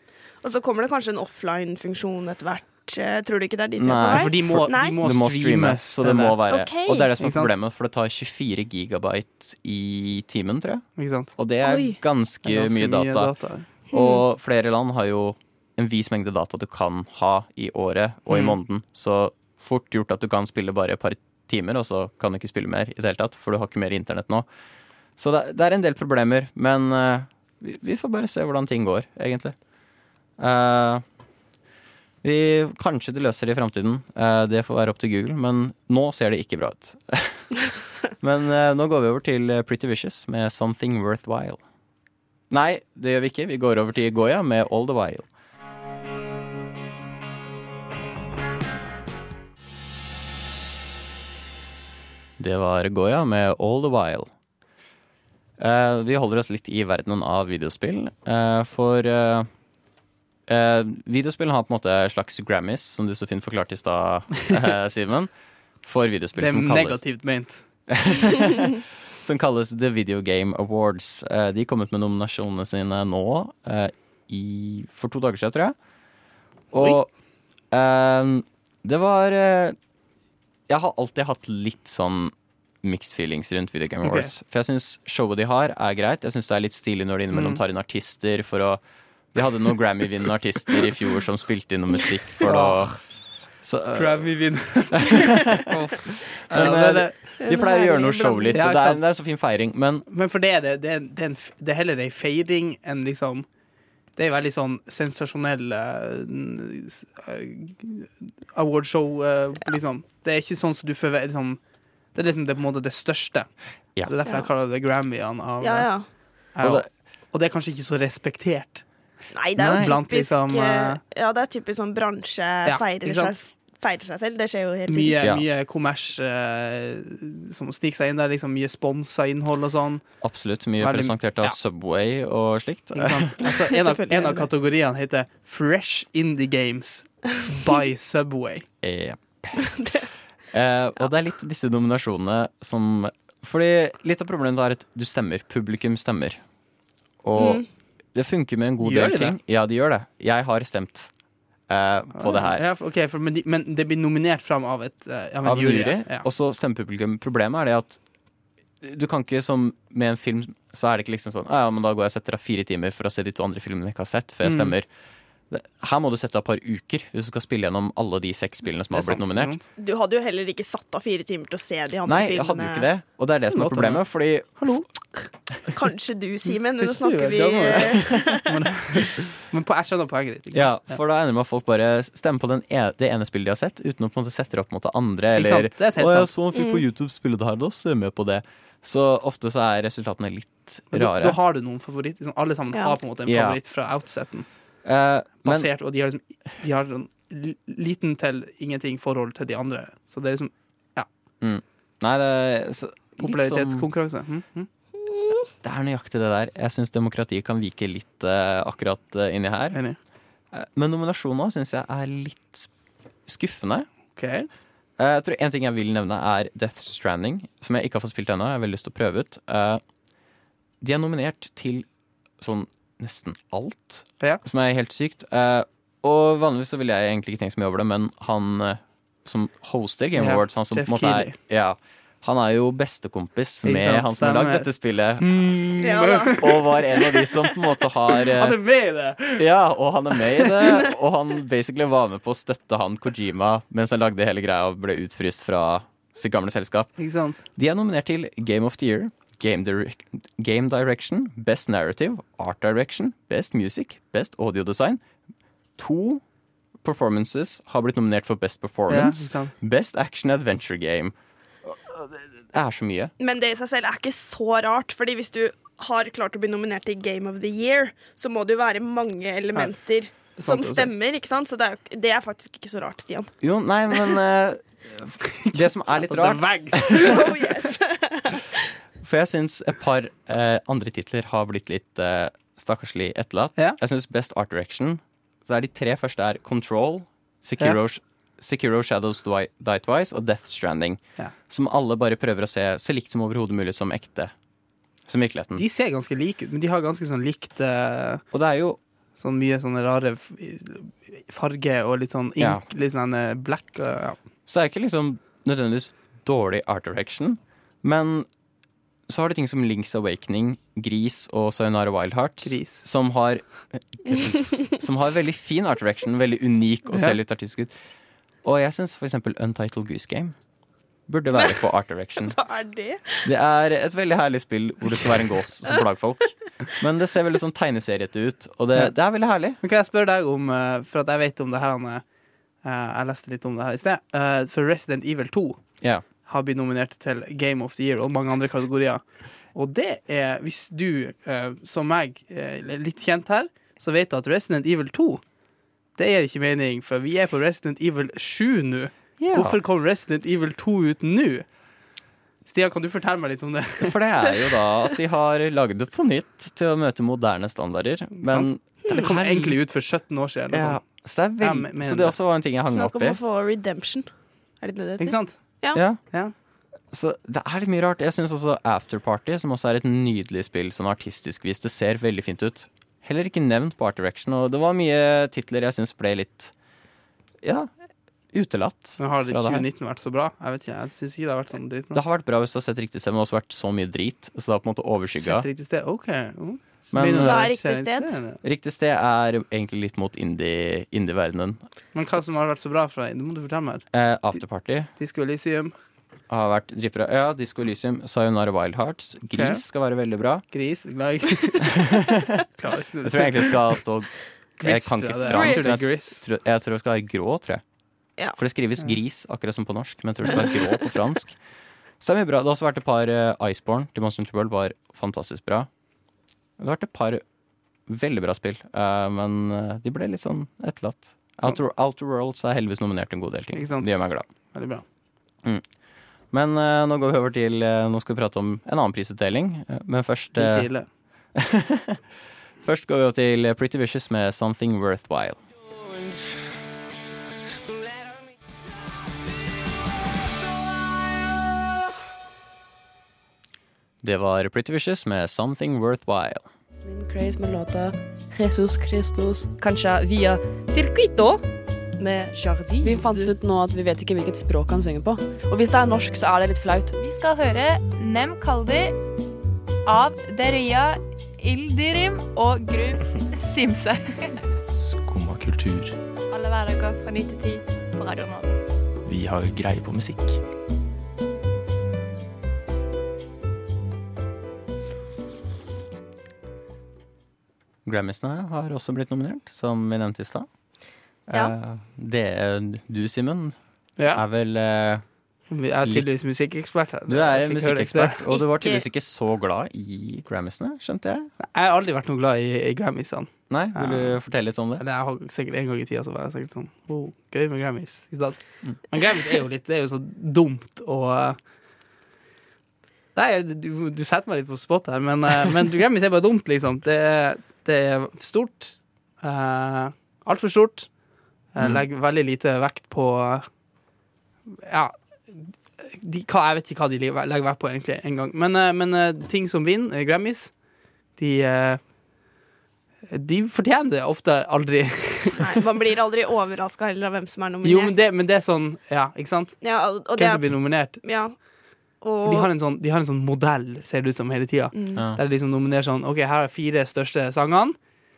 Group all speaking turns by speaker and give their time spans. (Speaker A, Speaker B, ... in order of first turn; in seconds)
Speaker A: 0.4-5.0, 6.5-7.1, 11.6-12.0, 13.9-14.2, 97.4-98.6, 115.6-116.1, 119.3-125.2, 133.5-134.5, 139.6-140.1, 147.3-147.7, 169.8-172.9, 175.7-178.5, 186.5-186.8, 205.0-205.4, 235.8-237.6, 263.2-273.3, 276.9-278.6, 321.3-321.6, 322.2-323.3, 362.7-365.8, 387.2-388.1, 405.3-405.8, 488.3-488.8, 525.4-527.9, 529.6-531.5, 532.0-532.5, 534.7-535.0
Speaker B: 3.8-24.5, 25.2-29.6, 30.4-31.0, 32.2-41.6, 42.5-45.3, 52.4-54.3, 55.6-59.5, 60.5-67.2, 67.9-75.8, 76.7-77.1, 77.7-79.8, 80.7-88.8, 89.3-95.7, 96.5-100.0, 116.6-116.9, 119.7-120.0, 125.2-125.5, 130.2-133.4, 138.8-146.4, 147.2-152.6, 155.4-158.0, 158.8-164.9, 165.5-169.6, 172.1-174.8, 180.5-191.4, 193.2-193.6, 194.8-195.7, 201.4-203.9, 205.6-209.8, 210.5-212.7, 213.2-213.9, 215.0-219.8, 220.8-221.9, 222.4-235.6, 236.3-238.6, 239.3-247.0, 247.5-255.0, 255.8-256.2, 256.8-263.1, 273.4-277.1, 279.0-294.3, 295.1-295.6, 298.3-298.8, 304.5-308.3, 309.1-317.7, 318.4-320.4, 321.1-322.4, 323.2-329.6, 349.2-349.6, 353.8-359.6, 360.5-363.2, 365.7-366.0, 366.9-376.5, 377.4-377.7, 378.3-379.6, 381.9-385.5, 386.9-387.5, 388.4-391.6, 393.9-394.9, 396.3-400.4, 403.0-407.6, 408.3-411.4, 412.0-415.7, 416.6-417.2, 417.9-424.3, 425.4-425.8, 426.3-435.4, 444.0-446.5, 477.8-480.5, 481.2-485.1, 485.8-486.1, 487.1-491.3, 493.5-494.8, 511.6-511.8
Speaker C: 4.1-6.4, 7.2-7.5, 11.0-11.3, 12.4-13.7, 18.3-18.6, 66.4-67.6, 84.0-84.3, 87.3-87.6, 92.4-93.1, 93.9-97.4, 98.5-99.0, 100.1-103.5, 104.1-111.6, 112.1-118.9, 119.6-121.0, 122.6-123.4, 124.9-131.6, 132.9-138.7, 148.8-149.4, 152.1-156.3, 164.4-164.7, 168.9-169.6, 173.5-175.3, 176.5-181.0, 185.3-186.3, 190.9-194.5, 195.4-201.1, 203.2-204.7, 209.7-210.0, 214.1-214.5, 230.1-231.3, 233.6-236.7, 238.3-239.4, 247.0-247.4, 258.9-259.5, 269.5-270.9, 275.4-277.2, 295.6-298.2, 299.1-304.2, 312.4-312.8, 329.6-332.0, 332.6-345.2, 345.9-351.5, 352.4-354.0, 358.2-362.1, 365.0-366.3, 379.0-382.0, 385.2-388.4, 391.9-393.9, 395.0-395.7, 399.3-399.6, 400.5-401.8, 402.5-403.8, 404.6-406.2, 423.5-424.8, 430.3-430.9, 484.0-484.2, 485.5-488.2, 491.4-501.4, 503.1-513.5, 514.5-521.9, 523.1-525.5, 527.6-531.0, 532.2-537.8
Speaker D: 446.8-451.4, 452.0-456.9
Speaker E: 456.9-459.0, 459.9-464.4, 466.3-468.6
Speaker F: 464.7-465.9, 469.1-470.4